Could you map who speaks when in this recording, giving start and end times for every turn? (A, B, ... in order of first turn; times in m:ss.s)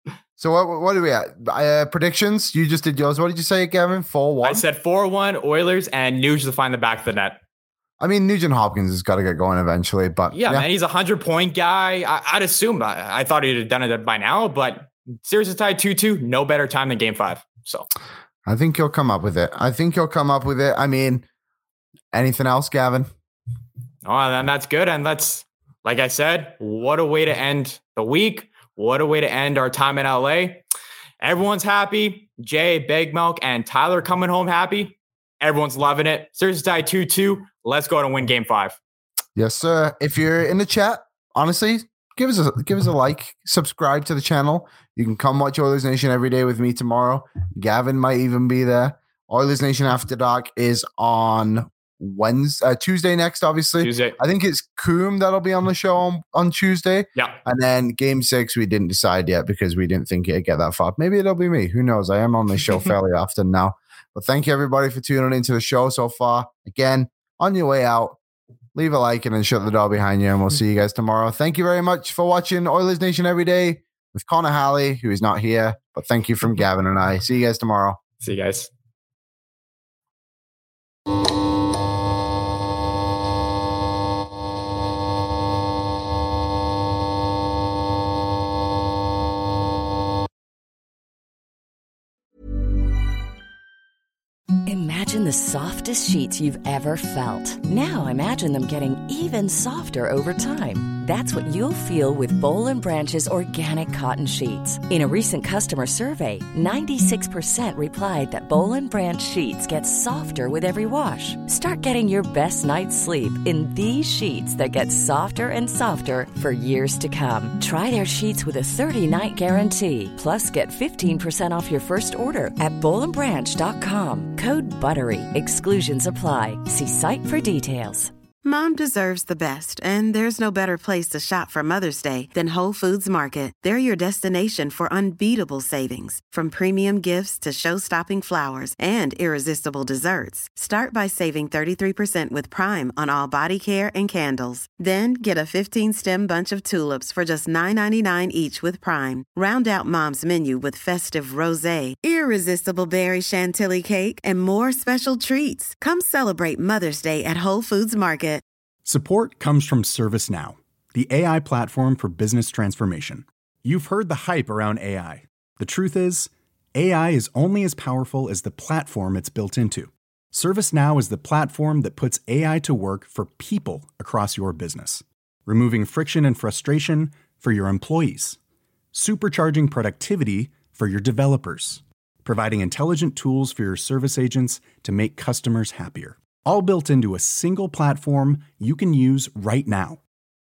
0:00.4-0:04.6 A
0:04.4-0:07.4 B
0:08.0-0:10.7 A
0:10.3-0:17.9 B
0:18.5-0:21.2 A
0:22.1-0:23.1 A
0:24.0-0:30.6 B
0:31.2-0:38.8 B
0:39.4-1:08.2 A
0:53.8-0:54.2 B
1:08.8-1:18.0 A
1:18.2-1:18.7 B
1:34.7-2:08.1 C
2:08.4-2:38.4 D
2:38.8-2:58.4 E
2:58.9-3:10.0 E